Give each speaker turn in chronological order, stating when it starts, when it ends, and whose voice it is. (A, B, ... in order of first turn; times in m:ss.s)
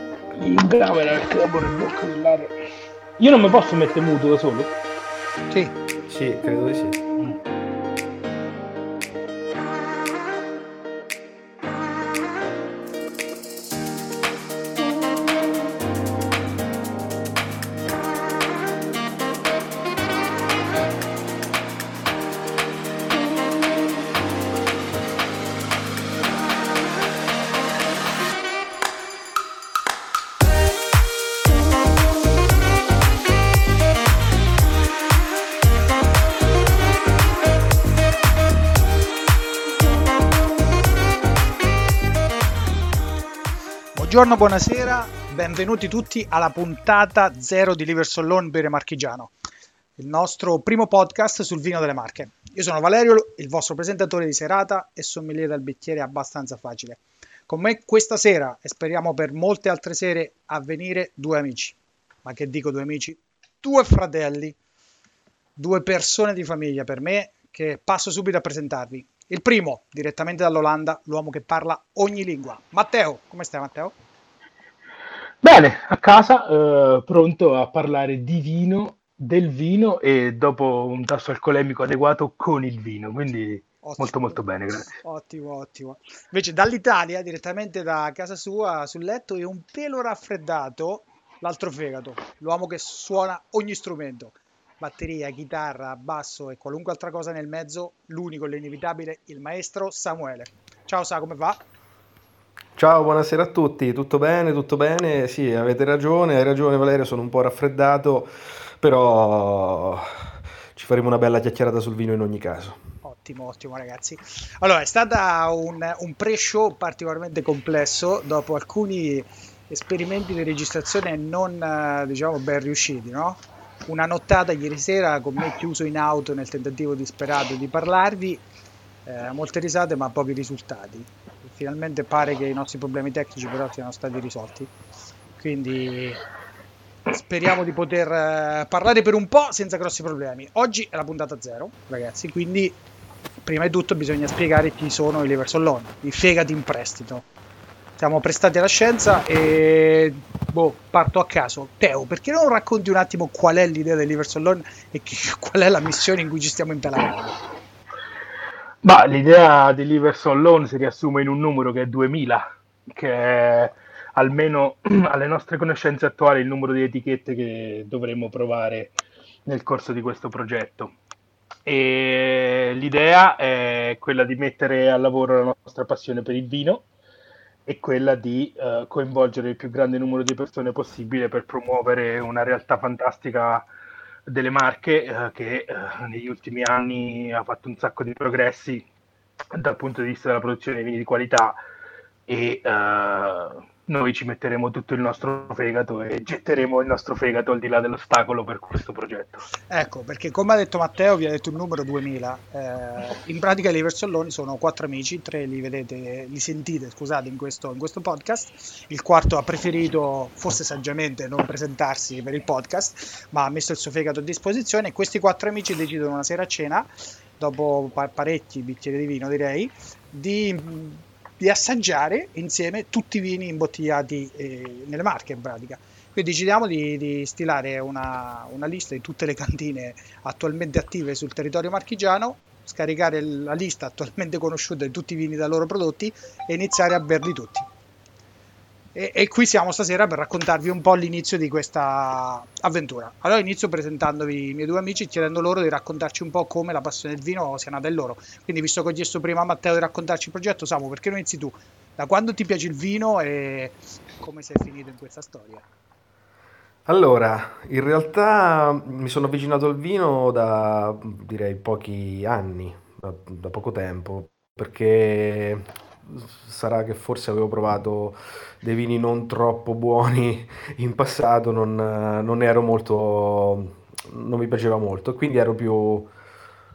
0:00.3-0:02.5 A
0:03.2-0:04.7 A
0:05.5-0:05.8 B
0:06.1-0:07.0 C
0:43.9-0:49.3 B
0:50.0-1:04.6 B
1:05.6-1:13.9 B
1:15.4-1:24.9 A
1:23.8-1:41.6 B
1:42.8-1:52.8 C
1:53.0-2:08.4 B
2:09.0-2:14.7 B
2:15.4-2:16.2 B
2:17.1-2:22.8 B
2:23.4-2:27.2 B
2:28.0-2:37.4 B
2:38.8-2:50.9 A
2:51.6-2:56.8 A
2:57.6-3:03.7 A
3:04.3-3:08.9 A
3:09.5-3:11.6 A
3:12.3-3:19.4 A
3:19.7-3:36.9 B
3:37.4-3:57.6 B
3:58.9-4:15.6 B
4:16.9-4:36.1 C